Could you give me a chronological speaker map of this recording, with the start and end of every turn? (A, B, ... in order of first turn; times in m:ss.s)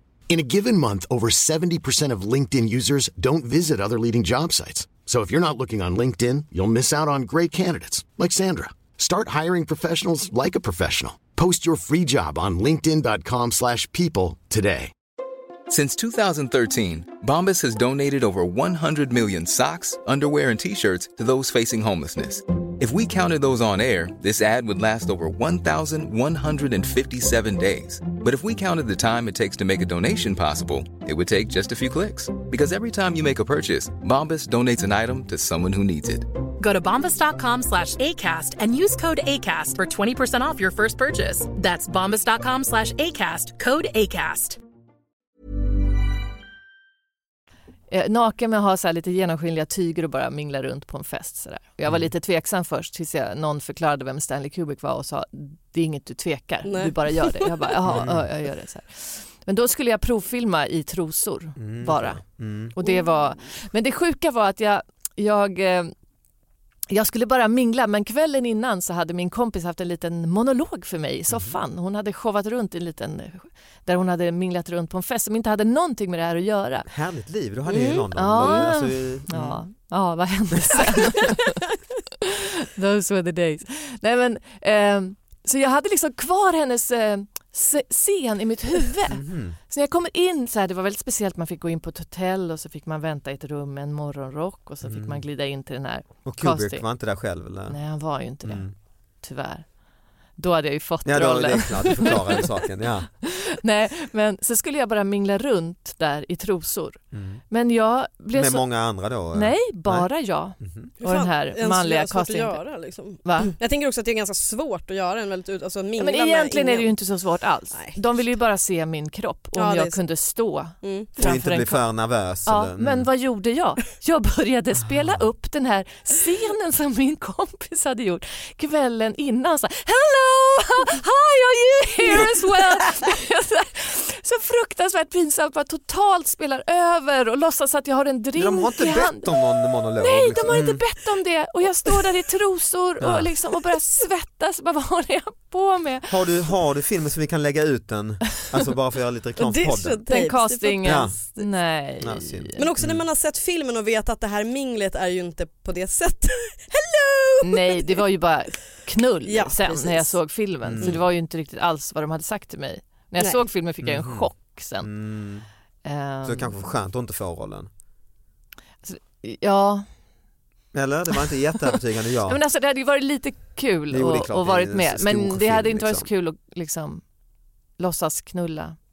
0:00.3-0:14.9 A
0:15.7-0:36.3 B
0:36.6-0:44.6 C
0:47.9-1:02.2 D
0:56.6-0:57.5 E
0:57.9-0:58.3 F
1:01.6-1:02.8 F
1:02.7-1:05.9 D
1:06.9-1:16.9 D
1:11.3-1:11.6 F
1:16.9-1:19.6 F
1:17.7-1:18.7 E
1:18.2-1:21.6 D
1:20.5-1:21.2 F
1:22.2-1:36.8 D
1:29.1-1:29.6 F
1:34.8-1:35.2 F
1:36.2-1:37.8 F
1:37.7-1:38.7 D
1:38.4-1:38.7 F
1:39.2-1:39.6 D
1:40.4-1:42.5 D
1:41.0-1:43.1 F
1:43.2-1:47.0 D
1:47.1-1:47.4 F
1:47.5-1:48.7 D
1:48.3-1:50.1 F
1:49.3-1:52.6 D
1:50.6-1:50.9 F
1:51.0-1:56.9 E
1:53.2-1:53.5 D
1:56.0-2:01.8 D
1:59.6-2:00.0 E
2:00.8-2:01.3 E
2:01.2-2:03.1 F
2:02.5-2:19.4 D
2:18.4-2:20.8 F
2:20.0-2:26.2 D
2:23.0-2:23.3 F
2:26.1-2:30.0 F
2:29.4-2:31.5 E
2:30.1-2:32.7 D
2:30.8-2:31.2 F
2:32.0-2:33.0 F
2:32.6-2:38.0 E
2:37.4-2:44.9 D
2:39.3-2:40.2 E
2:40.6-2:41.0 F
2:43.8-2:44.3 F
2:44.8-2:45.5 F
2:45.8-2:46.6 D
2:46.2-2:47.7 F
2:48.8-2:49.9 D
2:50.7-2:52.4 F
2:51.6-2:57.0 D
2:53.9-2:56.1 F
2:57.8-2:58.8 D